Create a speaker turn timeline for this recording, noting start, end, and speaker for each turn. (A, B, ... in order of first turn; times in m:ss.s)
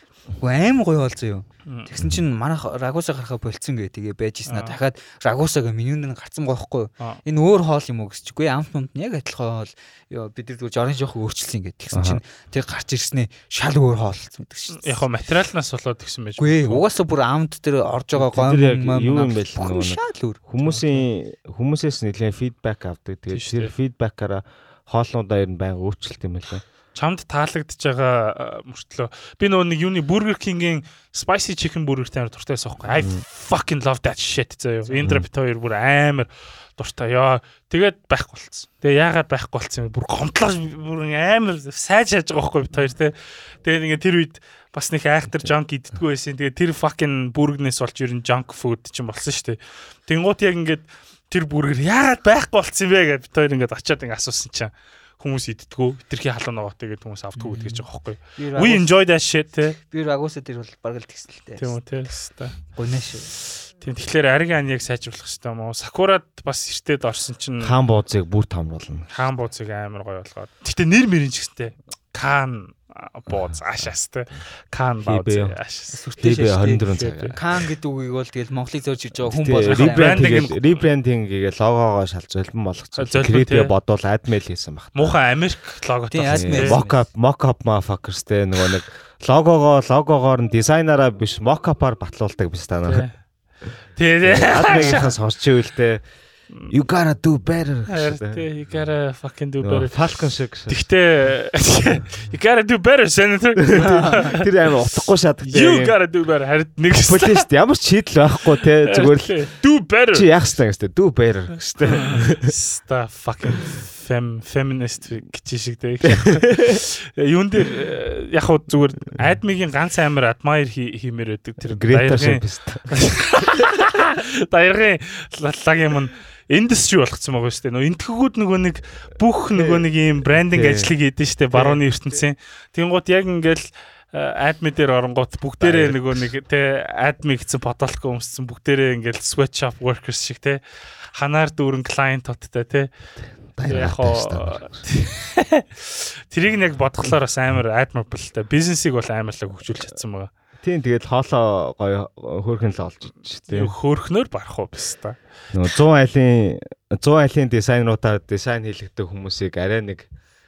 0:00.4-0:15.1 A
0:04.5-0:04.8 B
0:11.9-0:12.2 C
0:14.8-0:16.8 B
0:16.4-0:21.0 A
0:18.2-0:26.6 C
0:23.3-0:23.7 B
0:27.0-0:59.8 B
0:57.4-0:57.8 A
0:58.4-0:58.9 A
0:59.9-1:01.8 A
1:01.6-1:02.6 B
1:02.7-1:03.3 A
1:03.7-1:07.8 B
1:07.6-1:09.1 C
1:09.1-1:16.0 B
1:15.0-1:15.6 C
1:15.9-1:16.8 A
1:16.2-1:17.4 C
1:16.8-1:17.4 B
1:17.3-1:20.4 A
1:19.3-1:25.2 C
1:19.7-1:20.8 B
1:23.0-1:23.7 B
1:25.0-1:26.8 B
1:26.1-1:27.0 A
1:26.3-1:33.1 C
1:32.8-1:33.2 B
1:34.0-1:35.2 B
1:34.2-1:36.0 C
1:36.7-1:38.5 C
1:37.9-1:44.5 B
1:39.6-1:40.8 C
1:43.6-1:46.0 C
1:45.5-1:47.5 B
1:46.9-1:49.4 C
1:48.8-1:50.3 B
1:50.1-1:52.6 C
1:51.6-2:20.6 B
1:56.0-1:56.8 C
2:01.6-2:03.0 C
2:09.6-2:10.9 C
2:11.5-2:11.8 C
2:15.6-2:16.3 C
2:21.2-2:22.9 B
2:23.6-2:24.8 C
2:23.7-2:30.3 B
2:30.6-2:33.8 C
2:33.5-2:35.2 B
2:35.5-2:40.1 C